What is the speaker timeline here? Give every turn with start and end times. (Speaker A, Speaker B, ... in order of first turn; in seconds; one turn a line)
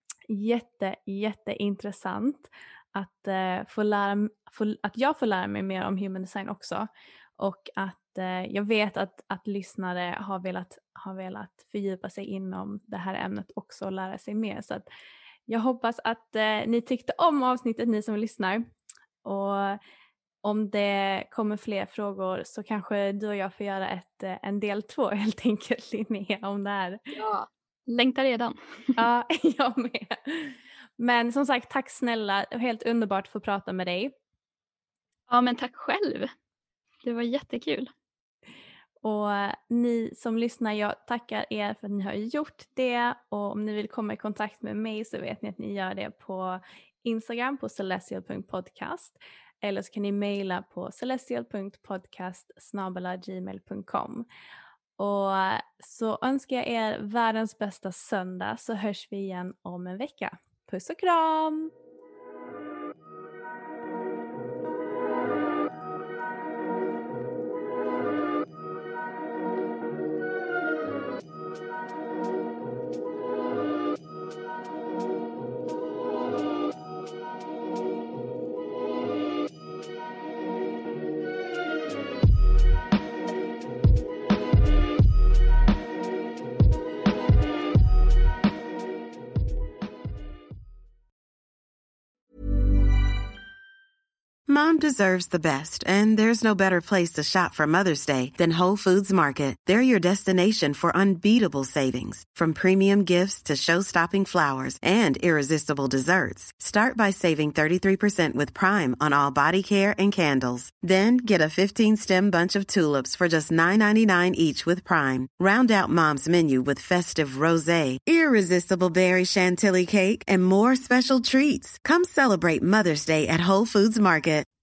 Speaker A: 0.3-14.8
Speaker A: 15.5-18.7
Speaker A: 19.2-19.8
Speaker A: 20.4-27.0
Speaker B: 27.1-29.0
Speaker A: 29.0-34.1
Speaker B: 35.3-36.3
Speaker B: 37.0-37.9
Speaker A: 39.0-54.3
Speaker A: 55.0-61.7
Speaker C: 94.5-124.5